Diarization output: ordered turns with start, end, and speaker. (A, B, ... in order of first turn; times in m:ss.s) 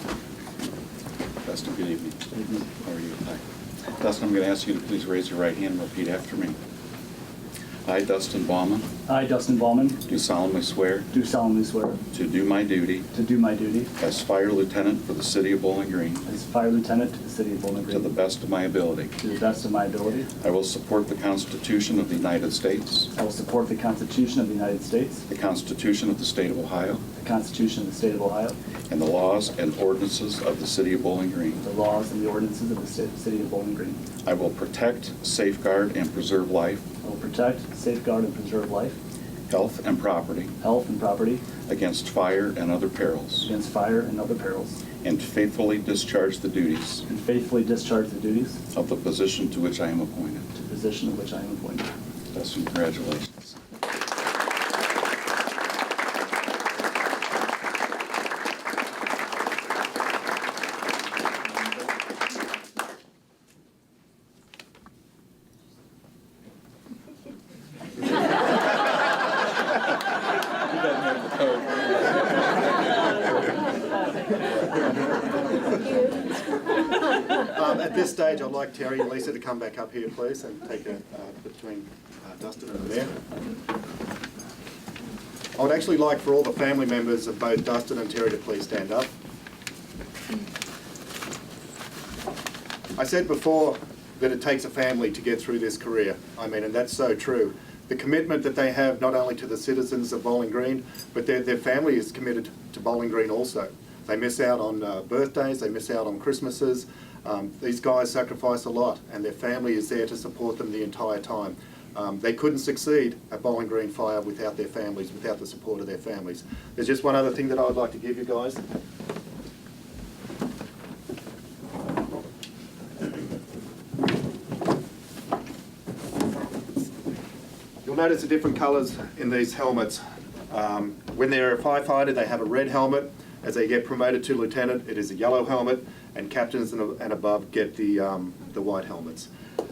0:01.4-0:03.4 A
0:02.3-0:02.7 B
0:03.9-0:06.6 A
0:07.8-0:08.8 A
0:09.1-0:10.0 B
0:10.0-0:11.1 A
0:11.1-0:12.0 B
0:12.1-0:13.1 A
0:13.1-0:13.9 B
0:14.0-0:16.3 A
0:16.2-0:18.1 B
0:17.9-0:19.1 A
0:19.2-0:20.3 B
0:20.4-0:23.1 A
0:23.1-0:25.2 B
0:25.3-0:27.0 A
0:27.2-0:28.6 B
0:28.9-0:31.6 A
0:31.6-0:34.0 B
0:34.2-0:36.8 A
0:37.0-0:39.0 B
0:39.5-0:40.5 A
0:40.6-0:41.4 B
0:41.6-0:43.5 A
0:43.4-0:44.8 B
0:45.0-0:47.0 A
0:47.1-0:48.6 B
0:48.7-0:50.5 A
0:50.6-0:51.9 B
0:52.3-0:53.6 A
1:17.4-1:23.1 C
1:25.6-1:29.1 C
1:33.0-1:58.6 C
2:07.8-2:19.3 C